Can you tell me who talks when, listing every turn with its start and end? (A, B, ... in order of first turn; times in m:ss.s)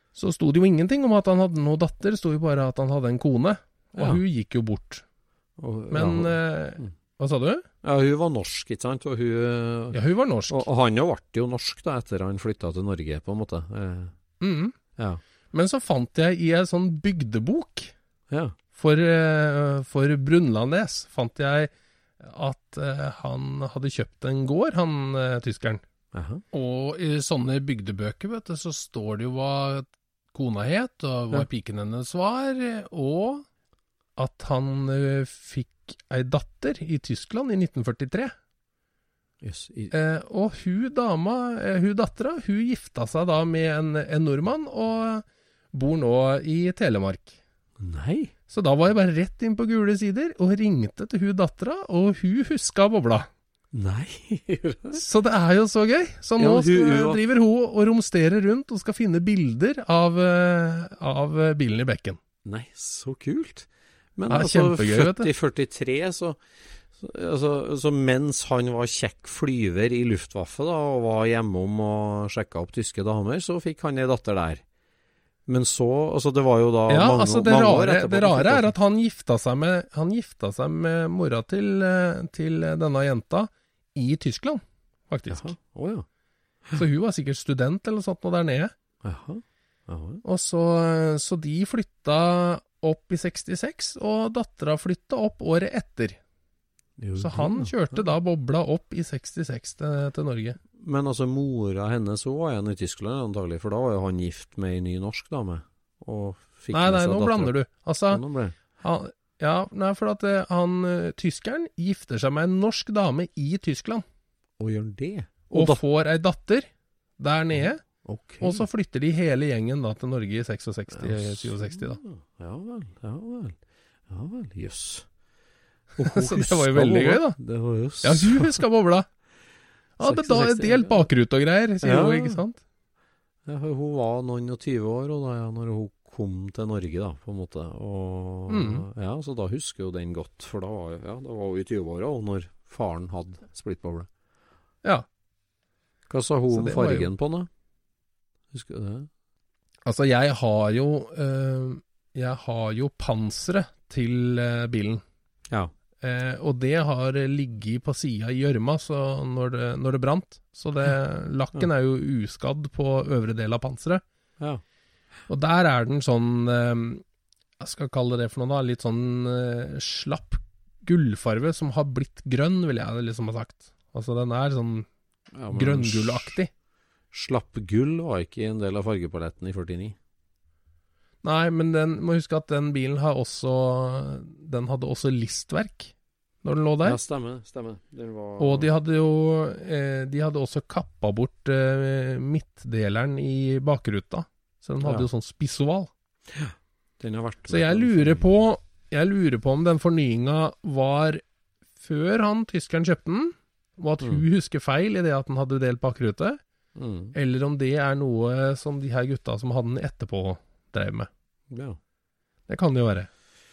0:00.2-0:05.0 A
0:04.0-0:04.2 B
0:05.6-0:06.9 B
0:05.9-0:07.6 A
0:07.8-0:10.0 B
0:09.9-0:10.7 A
0:10.5-0:14.1 B
0:14.4-0:14.7 A
0:15.5-0:17.9 A
0:18.3-0:18.6 B
0:18.7-0:25.8 A
0:26.1-0:26.4 B
0:26.5-0:33.4 A
0:34.2-0:38.3 A
0:39.4-0:39.9 B
0:39.9-0:47.3 A
0:47.8-0:48.3 B
0:48.5-0:53.3 A
0:53.7-0:55.0 B
0:54.9-1:02.2 A
0:56.4-0:57.2 B
1:02.4-1:06.4 B
1:04.3-1:05.3 A
1:06.9-1:14.6 B
1:15.4-1:18.7 B
1:16.9-1:25.6 A
1:25.3-1:26.1 B
1:26.7-1:28.7 A
1:29.0-1:30.2 B
1:30.2-1:36.2 A
1:37.0-1:38.0 B
1:37.2-1:40.6 A
1:40.7-1:47.5 B
1:46.7-1:48.2 A
1:48.1-1:48.6 B
1:48.7-1:54.0 A
1:54.6-1:55.8 B
1:55.5-1:56.7 A
1:57.2-1:57.8 A
1:57.5-1:58.6 B
1:58.4-2:02.0 A
2:00.9-2:03.6 B
2:04.1-2:05.1 B
2:06.0-2:08.5 B
2:06.0-2:07.4 A
2:08.0-2:09.1 A
2:10.0-2:12.6 A
2:10.0-2:11.1 B
2:11.8-2:12.4 B
2:13.4-2:24.1 B
2:18.5-2:18.9 A
2:26.1-2:27.5 B
2:26.5-2:27.1 A
2:28.5-2:29.1 B
2:29.9-2:35.0 A
2:36.0-2:44.0 A
2:45.3-2:47.0 A
2:47.6-2:54.9 A
2:55.3-2:56.3 B
2:55.5-2:56.5 A
2:57.1-3:00.0 B
3:01.2-3:05.9 A
3:06.4-3:07.0 A
3:06.8-3:08.7 B
3:08.4-3:15.9 A
3:16.3-3:18.2 B
3:17.5-3:21.2 A
3:21.8-3:26.4 A
3:26.8-3:27.1 B
3:27.1-3:31.1 A
3:31.5-3:31.8 B
3:32.5-3:33.1 A